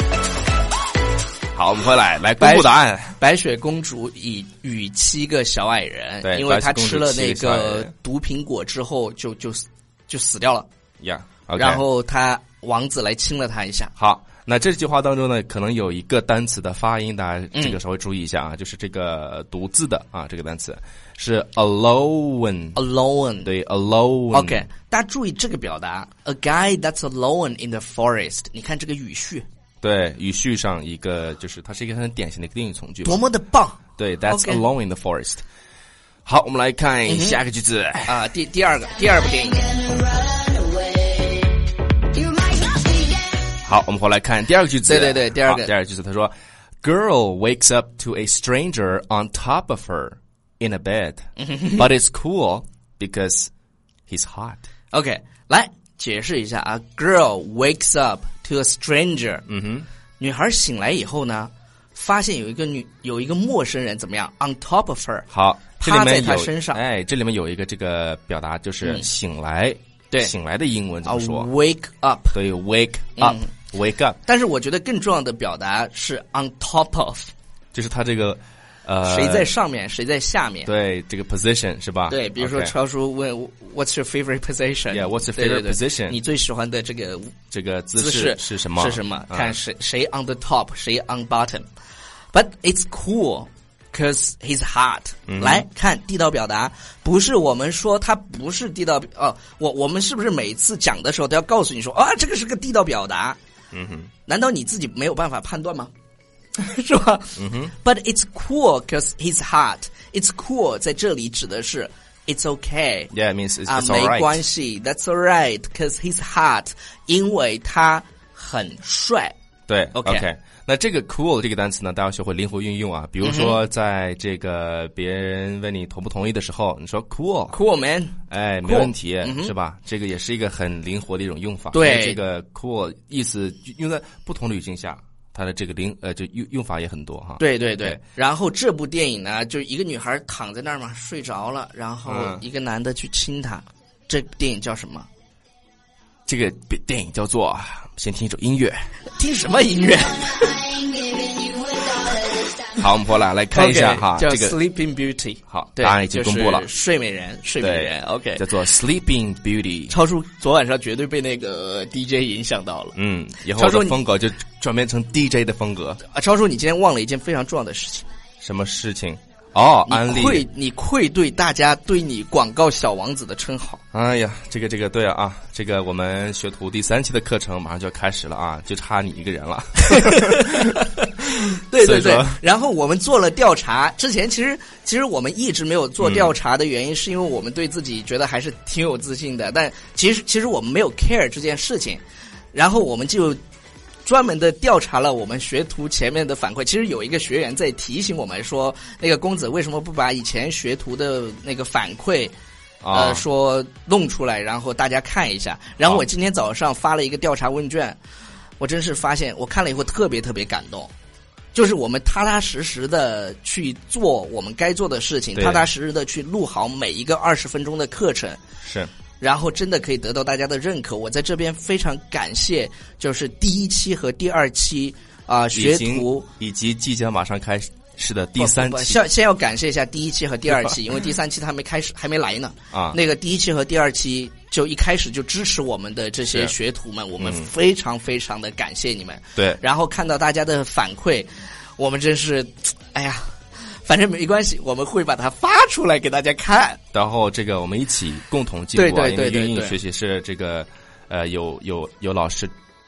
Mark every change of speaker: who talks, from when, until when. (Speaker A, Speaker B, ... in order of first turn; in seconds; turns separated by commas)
Speaker A: 1.5-3.2, Speaker B: 2.4-10.7, Speaker A: 6.2-7.9, Speaker A: 11.0-11.8, Speaker B: 11.6-13.9, Speaker A: 14.0-22.8, Speaker B: 17.5-17.8, Speaker B: 22.8-23.5, Speaker A: 23.4-24.7, Speaker B: 24.3-29.4, Speaker A: 29.8-33.2, Speaker B: 33.0-34.6, Speaker A: 34.0-35.4, Speaker A: 36.2-38.1, Speaker B: 37.1-37.4, Speaker B: 38.0-39.7, Speaker C: 39.3-43.5, Speaker A: 43.6-53.5, Speaker B: 44.8-45.7, Speaker B: 51.4-51.9, Speaker A: 54.1-54.7, Speaker B: 54.9-59.5, Speaker A: 59.5-59.9, Speaker B: 60.2-66.8, Speaker A: 65.3-71.5, Speaker B: 68.8-69.1, Speaker B: 71.0-72.3, Speaker A: 72.3-74.2, Speaker B: 73.2-73.5, Speaker B: 74.2-77.3, Speaker A: 77.7-79.5, Speaker B: 79.0-80.7, Speaker A: 80.7-82.7, Speaker B: 82.1-87.3, Speaker A: 84.9-86.2, Speaker A: 87.5-89.5, Speaker B: 88.0-91.7, Speaker B: 92.3-103.4, Speaker A: 95.3-95.6, Speaker A: 103.7-104.1, Speaker B: 104.3-105.9, Speaker B: 106.6-113.1, Speaker A: 107.4-107.7, Speaker A: 113.1-114.4, Speaker B: 113.7-119.3, Speaker A: 119.7-127.5, Speaker B: 119.9-120.2, Speaker B: 123.2-123.6, Speaker B: 127.5-129.5, Speaker A: 128.3-138.0, Speaker B: 131.7-132.2, Speaker B: 137.4-145.1, Speaker A: 142.1-142.4, Speaker A: 146.3-148.9, Speaker B: 149.1-150.6, Speaker C: 150.2-152.8, Speaker A: 152.7-154.6, Speaker B: 153.5-158.4, Speaker A: 155.5-156.7, Speaker A: 157.6-159.9, Speaker B: 159.9-163.0, Speaker A: 162.9-166.0, Speaker B: 163.6-164.0, Speaker B: 166.1-168.1, Speaker A: 168.4-170.4, Speaker B: 169.8-173.8, Speaker A: 173.9-180.8, Speaker B: 179.9-192.0, Speaker A: 181.8-182.4, Speaker A: 186.0-186.3, Speaker B: 192.5-193.4, Speaker B: 194.0-202.3, Speaker A: 202.8-203.2, Speaker B: 202.9-208.0, Speaker B: 208.6-210.9, Speaker B: 211.5-218.4, Speaker A: 215.3-215.7, Speaker A: 218.6-218.9, Speaker B: 219.2-226.3, Speaker A: 225.5-229.0, Speaker B: 228.4-246.8, Speaker A: 232.7-233.0, Speaker A: 237.2-237.5, Speaker A: 239.3-239.6, Speaker A: 246.9-252.5, Speaker B: 248.7-249.8